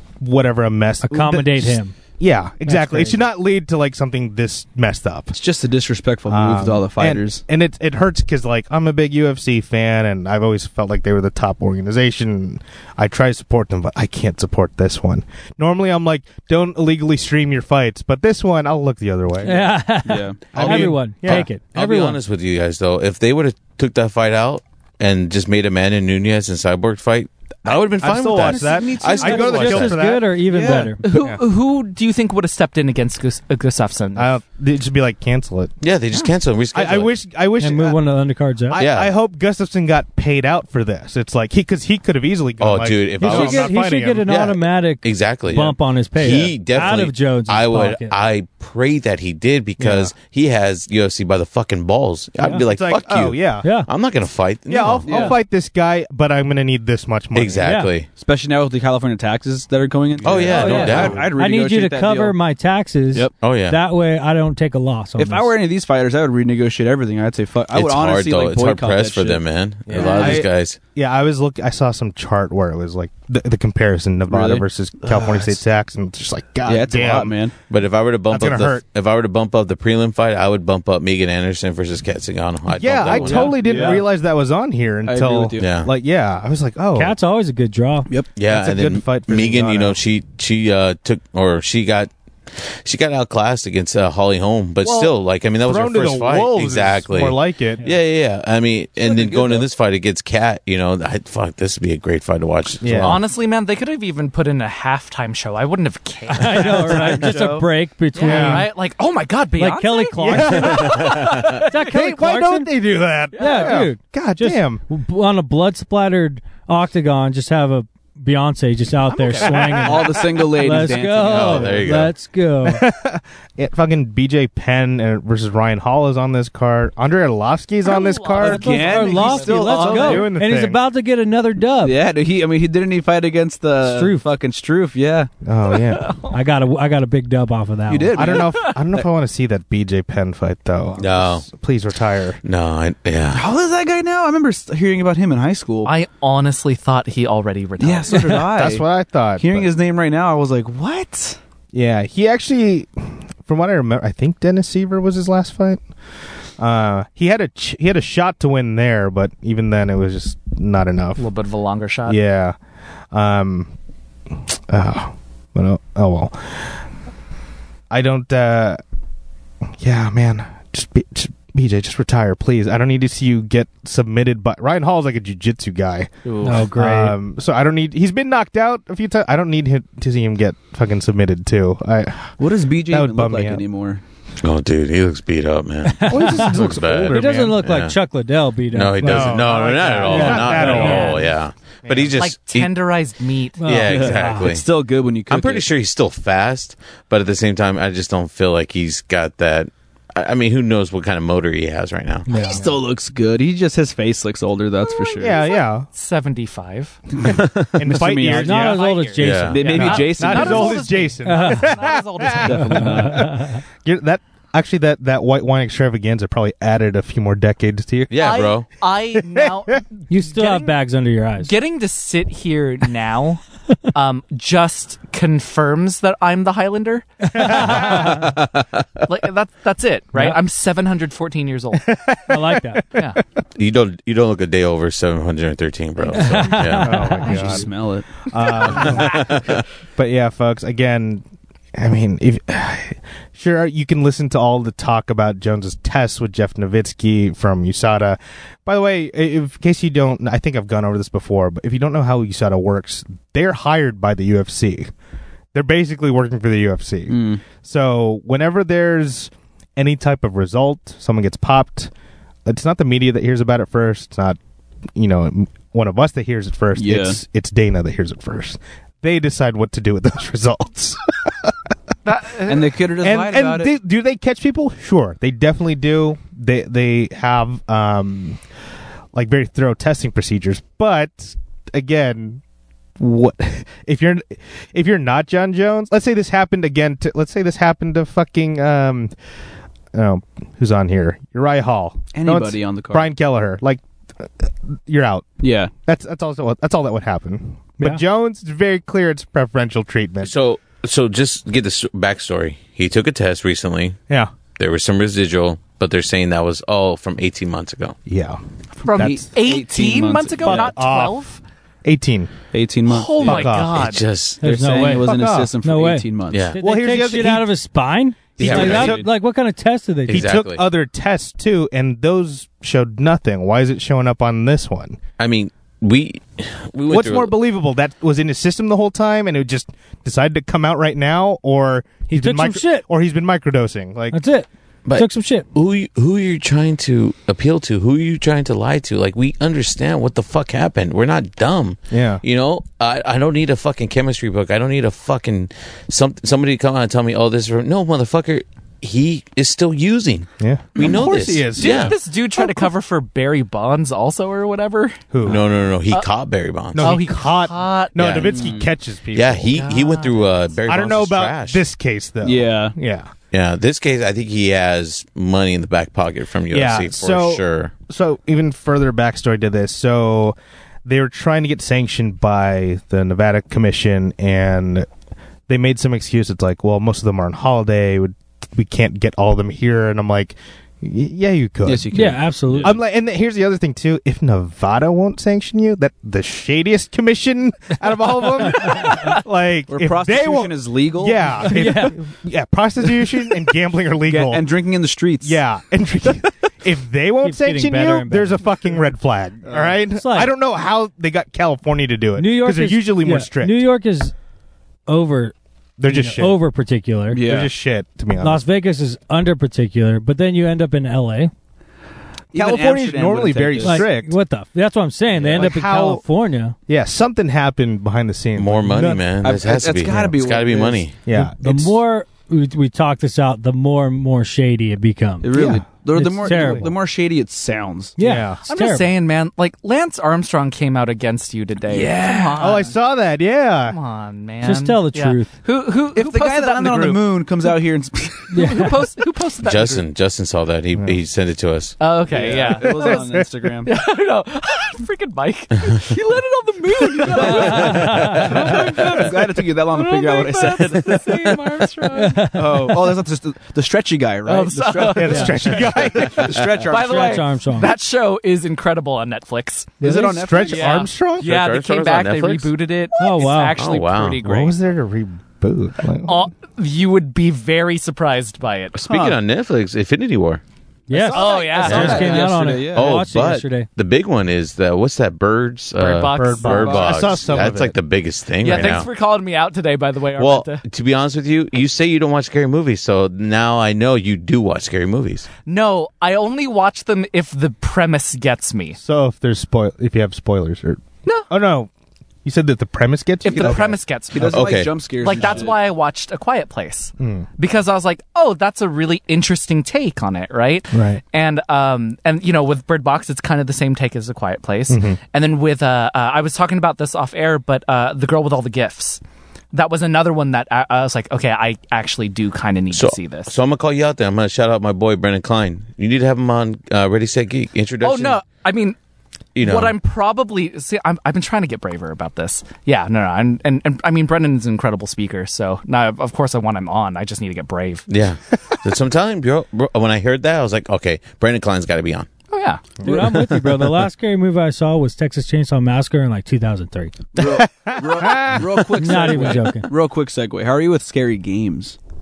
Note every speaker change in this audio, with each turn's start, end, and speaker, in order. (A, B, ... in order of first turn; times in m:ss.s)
0:00.2-0:05.3 A
0:01.0-0:01.9 B
0:02.6-0:03.2 B
0:05.3-0:07.4 C
0:06.3-0:19.8 A
0:19.4-0:22.2 B
0:20.0-0:20.5 C
0:20.5-0:21.5 A
0:20.5-0:30.0 D
0:27.6-0:31.4 A
0:28.2-0:29.7 C
0:29.2-0:31.0 B
0:30.5-0:30.9 C
0:31.0-0:34.4 E
0:34.1-0:35.8 A
0:35.8-0:37.1 D
0:36.7-0:38.0 A
0:37.6-0:38.8 B
0:38.7-0:44.3 A
0:38.7-0:39.1 D
0:42.6-0:43.7 D
0:43.2-0:48.1 B
0:44.2-0:55.3 D
0:49.8-0:50.1 A
0:52.4-0:53.7 A
0:53.6-0:53.9 B
0:54.7-0:57.8 A
0:55.0-0:55.4 C
0:57.3-0:58.1 D
0:57.6-0:57.9 B
0:58.1-1:02.4 C
1:00.2-1:01.2 D
1:00.2-1:01.3 A
1:00.5-1:05.5 B
1:03.4-1:03.8 D
1:05.2-1:10.4 C
1:07.7-1:10.8 D
1:09.9-1:17.4 A
1:14.3-1:15.5 C
1:16.6-1:17.5 C
1:17.7-1:23.6 D
1:18.3-1:18.8 A
1:22.7-1:27.1 A
1:23.1-1:24.0 C
1:25.0-1:25.7 C
1:25.6-1:25.9 D
1:26.9-1:28.1 B
1:28.3-1:43.2 D
1:28.4-1:30.0 A
1:34.8-1:37.8 A
1:39.0-1:39.6 C
1:42.8-1:43.2 A
1:42.9-1:47.6 E
1:46.3-1:48.7 B
1:46.7-1:47.6 C
1:48.1-1:51.8 E
1:48.2-1:48.7 A
1:49.6-1:52.7 B
1:50.2-1:54.8 A
1:51.1-1:51.5 D
1:53.3-2:02.9 B
1:59.1-1:59.9 E
1:59.4-2:00.2 A
1:59.8-2:01.8 C
2:01.3-2:02.1 D
2:02.6-2:08.7 A
2:07.8-2:10.2 E
2:08.4-2:10.3 C
2:08.4-2:12.0 B
2:09.9-2:10.8 A
2:11.8-2:15.3 C
2:13.8-2:14.2 B
2:15.4-2:16.1 A
2:15.7-2:16.3 E
2:16.3-2:18.4 B
2:17.9-2:19.0 C
2:18.1-2:22.4 A
2:18.4-2:18.7 E
2:21.0-2:21.4 D
2:22.4-2:23.5 D
2:23.3-2:25.9 C
2:25.8-2:28.5 E
2:27.8-2:28.8 C
2:28.4-2:29.7 A
2:29.4-2:31.4 C
2:31.7-2:35.8 A
2:36.6-2:41.2 A
2:41.2-2:42.2 E
2:42.1-2:42.6 A
2:43.1-2:43.7 A
2:44.5-2:46.8 A
2:47.9-2:48.8 A
2:49.8-3:03.6 A
2:56.2-2:56.7 E
2:56.4-2:57.2 B
3:02.4-3:04.0 C
3:04.4-3:08.0 D
3:05.8-3:09.4 B
3:06.0-3:07.6 A
3:08.7-3:12.7 D
3:09.0-3:11.3 A
3:10.0-3:11.2 B
3:10.6-3:11.2 E
3:11.8-3:12.2 A
3:12.2-3:13.6 E
3:13.6-3:14.5 B
3:13.6-3:14.6 D
3:13.9-3:15.7 C
3:15.3-3:22.4 D
3:22.3-3:22.6 B
3:22.4-3:25.4 C
3:24.8-3:27.0 E
3:25.2-3:25.9 A
3:27.2-3:28.8 A
3:27.3-3:27.7 D
3:27.8-3:28.7 C
3:28.3-3:30.0 B
3:28.5-3:32.9 E
3:29.2-3:29.7 D
3:29.5-3:30.8 C
3:29.8-3:38.2 A
3:31.2-3:31.8 B
3:32.3-3:33.3 C
3:32.5-3:33.6 B
3:38.1-3:38.7 D
3:38.2-3:40.8 E
3:39.1-3:39.8 A
3:40.1-3:41.5 B
3:41.4-3:48.2 E
3:47.3-3:48.3 B
3:47.4-3:48.1 A
3:47.9-3:48.5 C
3:49.1-3:51.9 E
3:51.8-3:53.2 A
3:52.3-3:52.8 B
3:53.6-3:57.5 D
3:56.1-3:57.2 B
3:56.8-3:57.7 A
3:57.2-3:58.2 C
3:58.2-4:01.2 A
3:58.5-3:59.6 D
3:58.7-3:59.2 E
4:01.7-4:14.9 A
4:15.5-4:21.9 A
4:17.1-4:17.4 C
4:22.4-4:24.4 A
4:24.9-4:31.6 A
4:26.8-4:27.2 C
4:32.0-4:32.8 E
4:32.4-4:33.7 C
4:33.0-4:38.4 A
4:39.1-4:42.4 A
4:43.0-4:49.1 A
4:49.9-4:55.3 A
4:52.1-4:53.1 C
4:55.4-4:55.7 C
4:55.8-5:00.3 A
5:00.2-5:04.0 D
5:04.6-5:08.0 D
5:08.0-5:08.4 A
5:08.8-5:11.4 E
5:08.9-5:10.7 C
5:10.4-5:11.2 A
5:11.8-5:12.3 A
5:12.5-5:13.5 C
5:12.8-5:14.0 E
5:13.2-5:13.8 A
5:13.5-5:14.4 D
5:14.4-5:16.5 C
5:14.4-5:20.3 B
5:15.0-5:15.5 A
5:16.3-5:16.6 D
5:16.6-5:17.5 A
5:18.4-5:19.0 D
5:18.4-5:19.0 A
5:18.4-5:19.1 C
5:20.1-5:20.6 D
5:20.1-5:25.0 A
5:25.2-5:27.3 D
5:26.9-5:34.2 A
5:32.1-5:32.8 B
5:34.1-5:35.5 B
5:34.8-5:51.9 D
5:41.9-5:42.2 A
5:50.4-5:51.9 A
5:50.8-5:55.0 E
5:55.1-5:55.4 A
5:55.2-5:57.0 D
5:56.7-5:59.6 A
5:56.7-5:58.2 E
5:58.0-5:58.4 D
5:58.2-5:58.7 C
5:59.1-6:01.6 D
5:59.5-6:00.4 E
6:00.6-6:03.1 A
6:02.2-6:02.7 C
6:03.3-6:07.7 D
6:06.5-6:14.9 A
6:15.5-6:21.9 A
6:21.6-6:22.8 C
6:21.9-6:22.8 B
6:22.6-6:34.5 A
6:28.6-6:29.0 B
6:28.7-6:29.2 E
6:29.7-6:31.5 C
6:31.4-6:32.0 B
6:34.0-6:35.4 C
6:35.2-6:43.6 A
6:37.2-6:38.4 B
6:39.9-6:40.3 B
6:42.2-6:44.1 B
6:44.9-6:45.3 B
6:45.8-6:46.4 A
6:45.8-6:47.2 B
6:47.1-6:47.5 C
6:47.2-6:48.4 A
6:48.2-6:51.3 B
6:52.3-6:53.8 C
6:52.3-6:54.2 A
6:53.6-6:56.6 B
6:55.2-6:56.0 A
6:56.7-6:59.1 A
6:58.4-7:00.9 D
6:59.2-7:00.8 C
7:01.0-7:01.8 A
7:01.1-7:05.3 B
7:05.2-7:08.0 C
7:05.3-7:05.6 A
7:05.9-7:06.7 B
7:06.2-7:06.7 A
7:08.0-7:08.9 B
7:08.0-7:08.4 A
7:08.5-7:12.7 E
7:11.7-7:12.5 C
7:12.4-7:13.8 A
7:13.6-7:17.3 E
7:14.4-7:15.3 B
7:15.9-7:18.7 C
7:18.3-7:19.8 E
7:18.3-7:18.7 B
7:19.4-7:21.8 D
7:21.8-7:32.5 E
7:22.1-7:23.7 C
7:22.6-7:23.3 A
7:27.1-7:31.6 C
7:27.1-7:28.3 B
7:27.9-7:28.1 D
7:32.0-7:32.8 B
7:32.3-7:37.3 C
7:34.2-7:44.6 E
7:34.9-7:36.4 A
7:36.7-7:37.7 B
7:39.8-7:40.8 C
7:39.8-7:41.3 A
7:41.2-7:42.5 D
7:43.0-7:43.6 B
7:43.6-7:44.2 D
7:44.2-7:46.3 A
7:46.0-7:48.8 E
7:48.7-7:50.4 D
7:48.8-7:49.2 C
7:50.9-7:53.7 B
7:50.9-7:52.2 E
7:51.1-7:53.0 C
7:51.6-7:58.9 D
7:55.8-7:57.0 E
7:56.2-7:57.7 A
7:56.6-7:56.9 C
7:58.4-8:00.6 E
8:00.2-8:05.3 D
8:05.4-8:08.8 E
8:08.8-8:11.7 A
8:12.2-8:13.8 A
8:13.2-8:29.0 E
8:13.3-8:15.6 C
8:14.2-8:14.7 D
8:17.0-8:17.3 A
8:20.7-8:21.0 A
8:24.7-8:25.0 A
8:29.5-8:33.4 E
8:32.7-8:38.2 D
8:37.8-8:38.8 E
8:39.3-8:39.7 D
8:39.4-8:47.9 E
8:47.9-8:52.1 D
8:52.3-8:52.8 E
8:52.8-8:57.0 B
8:57.1-9:01.8 C
8:57.2-8:58.8 A
8:58.7-8:59.7 B